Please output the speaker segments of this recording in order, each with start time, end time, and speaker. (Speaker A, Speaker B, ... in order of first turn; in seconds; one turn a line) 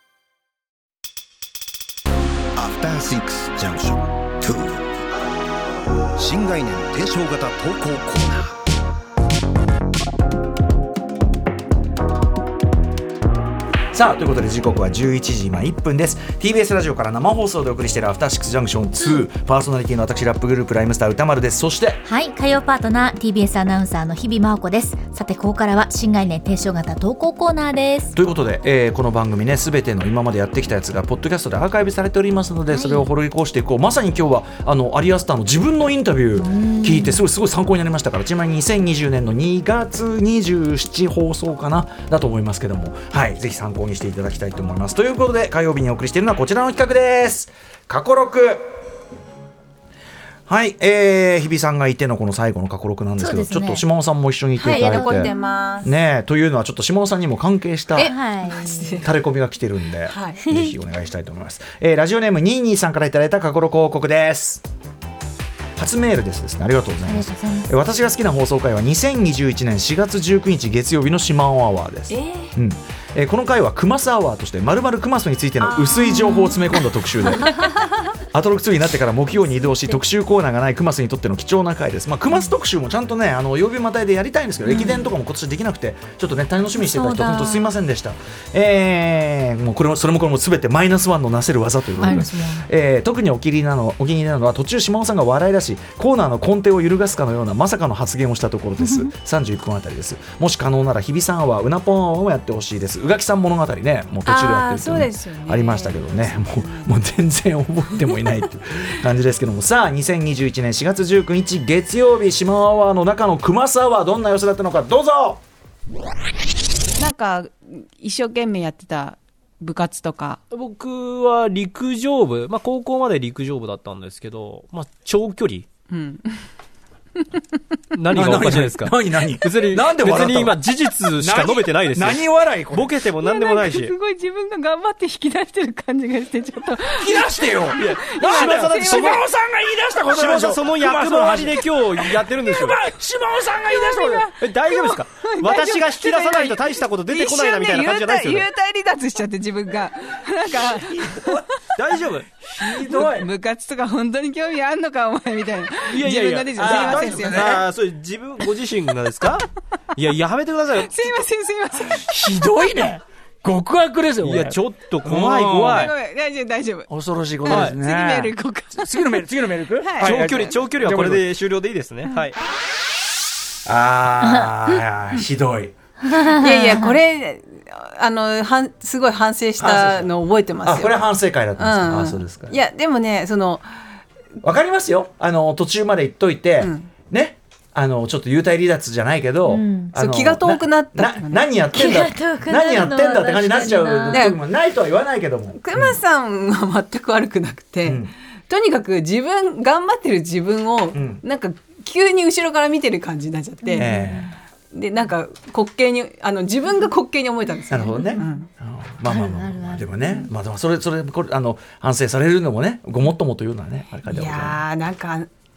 Speaker A: 2.6-4.8
Speaker A: 6.2-8.5
Speaker B: 13.9-22.0
Speaker C: 22.0-28.1
Speaker B: 28.1-48.6
Speaker C: 32.7-33.1
Speaker C: 36.4-37.2
Speaker B: 50.5-55.3
Speaker C: 53.2-53.8
Speaker D: 54.6-55.9
Speaker C: 54.7-55.3
Speaker B: 55.8-58.1
Speaker C: 58.0-59.0
Speaker D: 58.0-59.1
Speaker B: 59.0-64.6
Speaker D: 60.1-60.4
Speaker B: 65.8-77.5
Speaker C: 67.0-67.8
Speaker D: 72.1-72.5
Speaker C: 76.1-76.5
Speaker B: 78.3-115.4
Speaker C: 84.7-85.1
Speaker C: 86.8-87.7
Speaker C: 92.0-92.7
Speaker C: 98.8-99.1
Speaker D: 104.2-107.0
Speaker D: 117.0-120.4
Speaker E: 120.5-125.7
Speaker D: 125.9-126.5
Speaker E: 127.9-133.9
Speaker B: 128.1-130.6
Speaker B: 131.1-133.0
Speaker D: 133.1-139.2
Speaker B: 137.0-144.3
Speaker E: 137.8-139.1
Speaker E: 140.2-142.8
Speaker D: 143.7-151.4
Speaker E: 144.3-148.4
Speaker B: 150.5-151.4
Speaker E: 151.8-152.3
Speaker B: 152.5-153.3
Speaker D: 152.6-157.6
Speaker E: 155.9-159.4
Speaker B: 156.6-157.6
Speaker E: 159.9-160.9
Speaker D: 160.7-162.0
Speaker B: 161.9-165.9
Speaker E: 164.2-165.7
Speaker D: 165.7-166.9
Speaker B: 166.9-171.2
Speaker D: 167.4-168.9
Speaker D: 169.8-170.6
Speaker E: 170.0-172.3
Speaker B: 173.7-175.7
Speaker C: 176.0-176.9
Speaker D: 176.3-181.0
Speaker B: 179.6-180.1
Speaker B: 180.6-182.5
Speaker D: 181.6-183.7
Speaker B: 184.4-195.8
Speaker D: 186.6-186.9
Speaker C: 189.4-189.9
Speaker D: 189.9-191.5
Speaker C: 191.7-194.3
Speaker D: 194.1-194.4
Speaker D: 195.6-203.9
Speaker B: 197.8-198.1
Speaker B: 200.9-201.2
Speaker C: 203.6-204.3
Speaker B: 203.8-204.2
Speaker D: 204.7-208.5
Speaker B: 207.7-214.6
Speaker C: 207.9-208.2
Speaker C: 209.1-210.0
Speaker D: 214.1-215.3